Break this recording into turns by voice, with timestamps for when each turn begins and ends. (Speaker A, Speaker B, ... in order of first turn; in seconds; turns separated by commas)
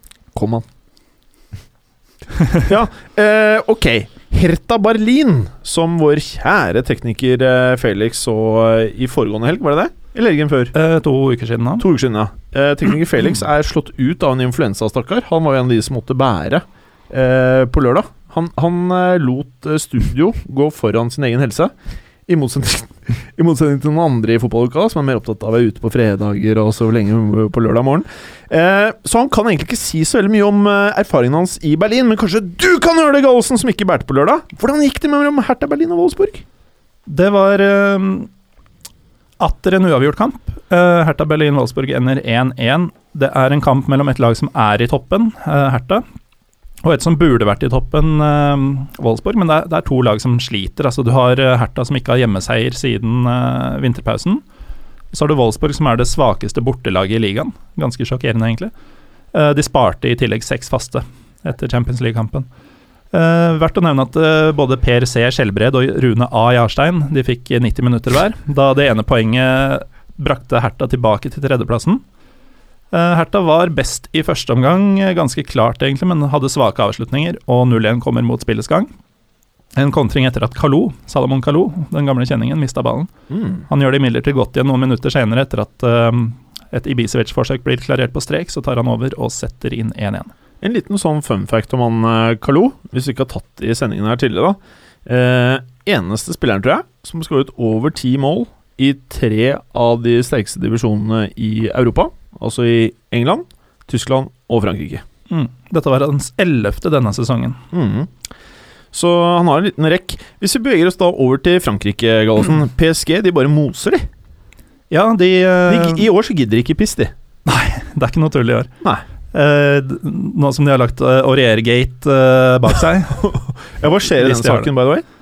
Speaker A: 0.3-0.7, Speaker A: 2.6-10.7, Speaker B: 10.7-11.9, Speaker A: 11.8-21.7, Speaker A: 22.3-36.4, Speaker B: 37.1-38.3, Speaker B: 39.4-46.0, Speaker B: 46.8-54.4, Speaker B: 55.1-58.7, Speaker B: 59.3-62.5, Speaker B: 63.1-72.0, Speaker B: 72.9-78.9, Speaker B: 79.8-83.1, Speaker A: 83.3-83.6, Speaker B: 83.7-90.3, Speaker A: 90.6-105.0, Speaker B: 105.3-107.6, Speaker A: 107.7-108.1, Speaker A: 108.9-114.1, Speaker B: 114.9-116.0, Speaker A: 115.7-117.1, Speaker B: 117.5-118.7, Speaker B: 119.3-123.3, Speaker A: 123.2-125.0, Speaker B: 124.1-124.7